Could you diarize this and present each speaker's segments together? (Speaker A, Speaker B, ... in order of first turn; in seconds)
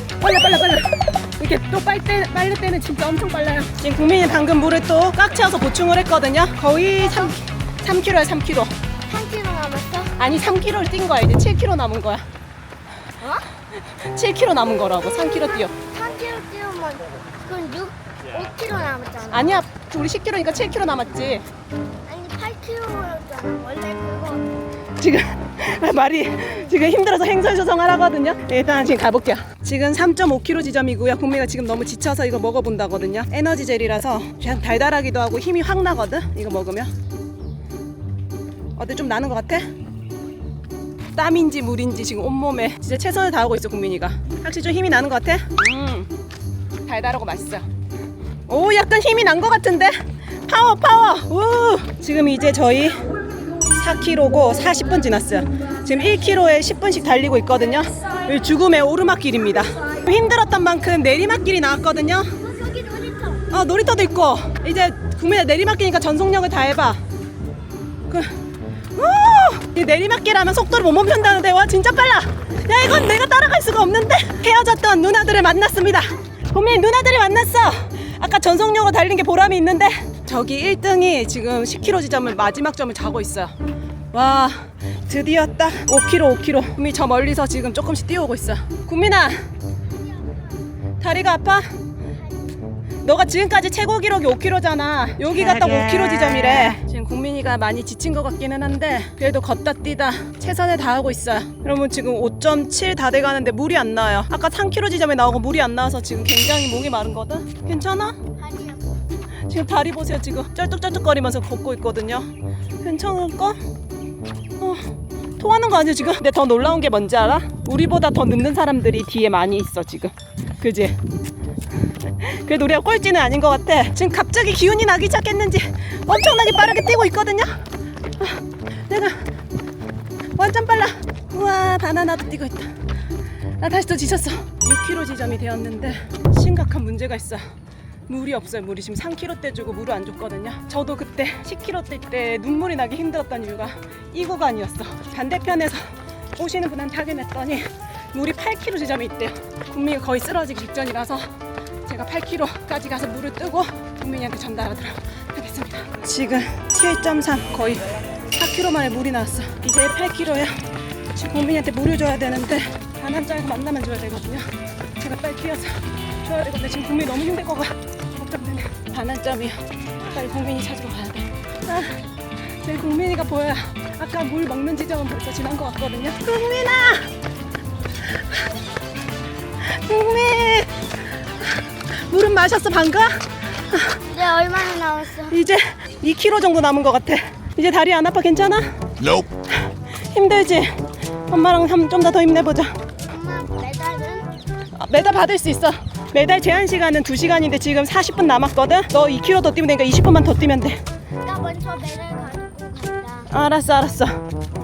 Speaker A: 0.2-8.7, 10.2-12.2, 14.0-15.7, 19.3-21.4, 25.0-36.9, 38.8-39.7, 41.1-46.1, 46.9-47.6, 48.5-53.1, 53.6-62.3, 63.5-67.0, 69.0-83.5, 84.1-89.3, 91.0-91.7, 93.0-108.2, 109.5-112.3, 112.8-113.6, 114.6-114.9, 115.4-121.0, 122.2-127.6, 128.2-129.2, 130.3-132.7, 133.6-137.4, 138.1-151.3, 151.8-160.6, 161.1-164.5, 165.0-172.0, 172.6-177.1, 179.6-180.7, 181.4-184.0, 185.3-189.3, 190.1-192.8, 194.8-200.8, 203.3-204.2
Speaker B: 9.1-10.2, 15.7-19.6, 22.1-24.5, 62.4-63.5, 108.4-109.0, 184.1-185.3, 193.1-194.3, 201.2-203.3